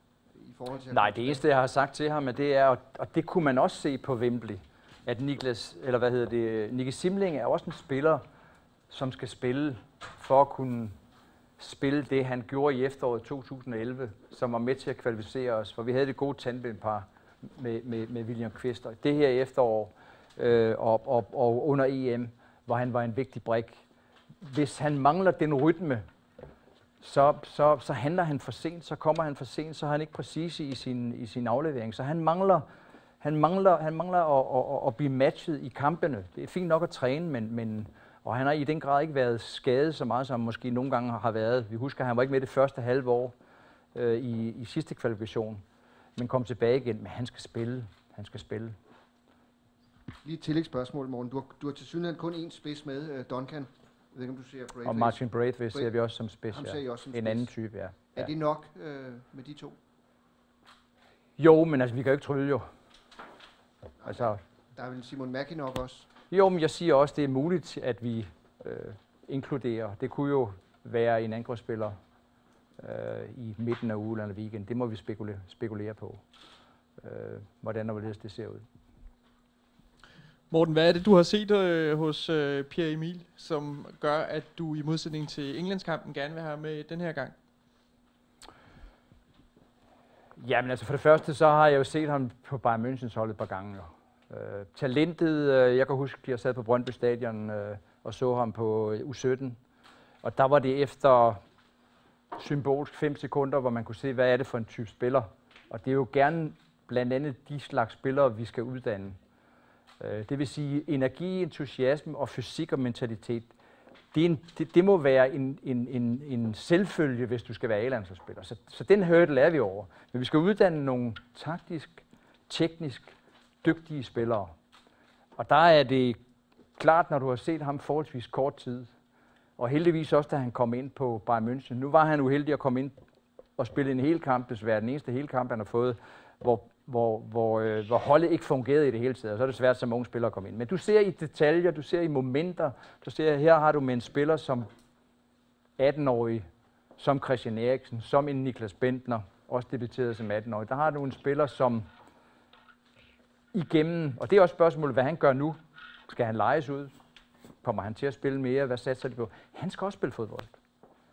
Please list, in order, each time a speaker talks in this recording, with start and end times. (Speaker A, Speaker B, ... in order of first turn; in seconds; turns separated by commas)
Speaker A: 0.3-1.4, Speaker B: 0.9-8.2, Speaker B: 8.9-10.9, Speaker B: 11.6-23.8, Speaker B: 24.4-26.0, Speaker B: 27.0-32.6, Speaker B: 33.2-43.3, Speaker B: 43.9-45.6, Speaker B: 46.1-48.7, Speaker A: 50.2-55.2, Speaker B: 54.8-58.3, Speaker A: 56.5-57.5, Speaker A: 58.1-59.8, Speaker B: 61.4-62.7, Speaker A: 64.0-66.1, Speaker B: 64.0-64.4, Speaker B: 66.3-72.0, Speaker B: 72.8-76.2, Speaker B: 77.0-78.6, Speaker C: 80.5-87.3, Speaker B: 90.4-99.6, Speaker B: 100.2-101.4, Speaker B: 102.3-109.2, Speaker B: 110.0-113.5, Speaker B: 114.1-124.5, Speaker B: 125.4-126.2, Speaker B: 126.8-128.9, Speaker B: 129.6-132.9, Speaker B: 133.6-144.7, Speaker B: 145.8-146.4, Speaker B: 147.0-151.8, Speaker B: 153.5-156.9, Speaker B: 157.6-160.5